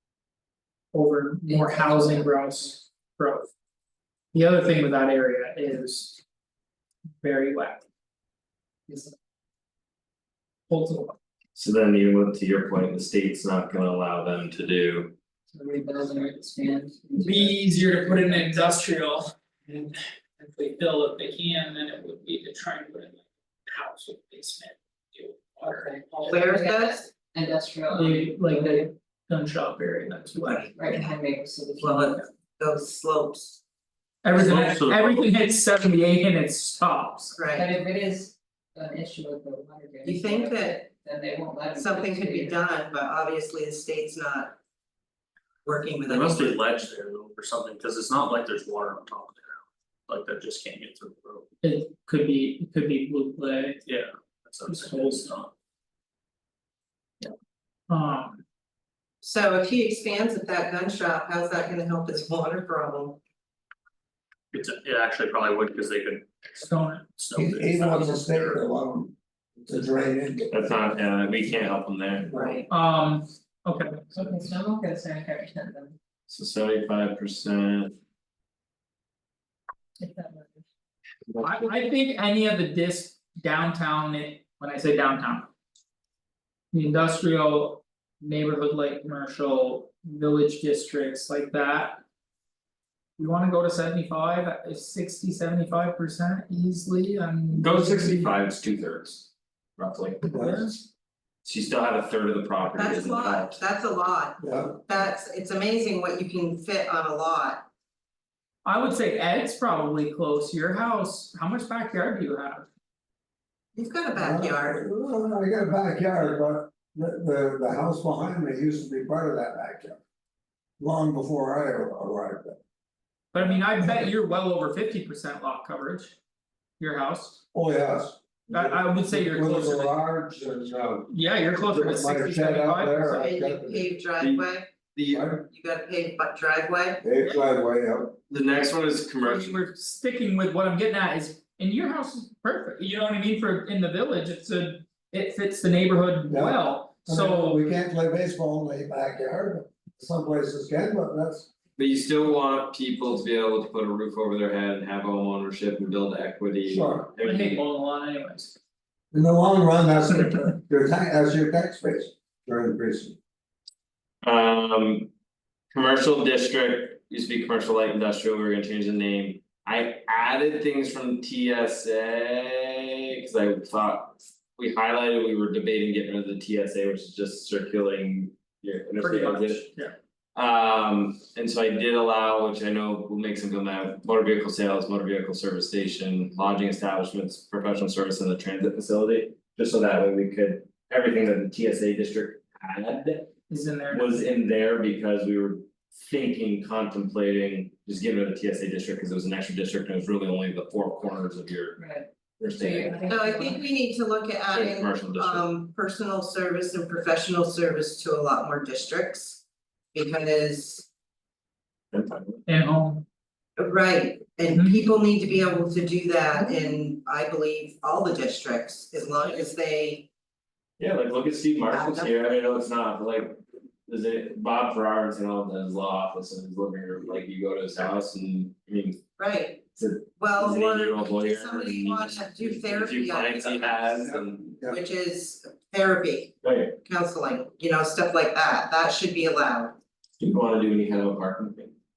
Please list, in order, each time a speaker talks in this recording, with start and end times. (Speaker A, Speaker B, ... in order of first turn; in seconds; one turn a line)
Speaker A: 0.9-3.5
Speaker B: 1.4-2.6
Speaker A: 4.3-6.2
Speaker A: 7.2-7.8
Speaker B: 8.9-9.1
Speaker A: 10.7-11.2
Speaker C: 11.5-15.1
Speaker B: 15.5-18.6
Speaker A: 17.2-26.4
Speaker B: 25.7-28.9
Speaker D: 26.3-27.0
Speaker A: 27.9-30.7
Speaker D: 30.5-31.1
Speaker B: 30.7-32.2
Speaker D: 31.8-33.6
Speaker A: 34.2-37.4
Speaker E: 34.4-35.3
Speaker D: 37.4-37.7
Speaker B: 37.5-42.6
Speaker D: 40.0-40.8
Speaker D: 41.7-44.6
Speaker D: 45.6-46.6
Speaker E: 46.0-51.5
Speaker A: 51.6-53.8
Speaker E: 53.8-55.5
Speaker A: 54.6-55.2
Speaker A: 57.9-58.4
Speaker D: 59.2-63.2
Speaker E: 64.5-66.7
Speaker A: 66.6-67.1
Speaker E: 67.2-68.6
Speaker F: 67.3-70.8
Speaker C: 70.5-72.3
Speaker F: 72.2-72.6
Speaker D: 72.3-72.6
Speaker A: 72.7-74.0
Speaker B: 74.1-76.0
Speaker C: 76.3-78.0
Speaker B: 80.0-80.6
Speaker C: 81.3-81.5
Speaker A: 81.4-85.5
Speaker A: 86.7-92.0
Speaker A: 93.2-98.3
Speaker C: 97.5-100.8
Speaker F: 100.2-100.7
Speaker A: 100.3-100.8
Speaker C: 101.4-103.6
Speaker D: 102.7-107.7
Speaker F: 104.4-104.8
Speaker A: 108.6-112.7
Speaker D: 113.7-114.8
Speaker F: 114.1-120.0
Speaker F: 120.8-122.6
Speaker A: 123.3-126.2
Speaker F: 123.4-124.1
Speaker A: 126.8-127.4
Speaker F: 127.5-131.1
Speaker A: 128.5-129.9
Speaker A: 131.1-133.3
Speaker F: 131.6-133.9
Speaker D: 133.1-134.7
Speaker C: 134.2-135.3
Speaker F: 135.1-135.4
Speaker D: 135.5-137.0
Speaker F: 137.0-138.2
Speaker C: 138.3-139.6
Speaker A: 139.2-147.6
Speaker F: 146.3-151.5
Speaker C: 151.8-157.6
Speaker F: 156.7-157.1
Speaker A: 157.2-158.6
Speaker F: 159.1-163.2
Speaker C: 164.2-165.1
Speaker C: 165.7-179.7
Speaker A: 179.0-179.9
Speaker C: 180.3-193.3
Speaker A: 193.5-194.2
Speaker C: 193.9-201.8
Speaker B: 201.8-203.7
Speaker C: 202.4-203.1
Speaker D: 203.1-209.4
Speaker C: 204.5-205.4
Speaker D: 209.9-210.9
Speaker C: 211.9-212.4
Speaker A: 212.4-213.0
Speaker D: 213.6-220.1
Speaker A: 214.5-214.8
Speaker C: 220.8-229.0
Speaker D: 221.7-222.1
Speaker D: 229.2-234.0
Speaker C: 229.8-234.6
Speaker F: 234.1-234.8
Speaker D: 234.7-236.3
Speaker C: 236.4-236.8
Speaker D: 236.8-239.8
Speaker C: 240.2-241.7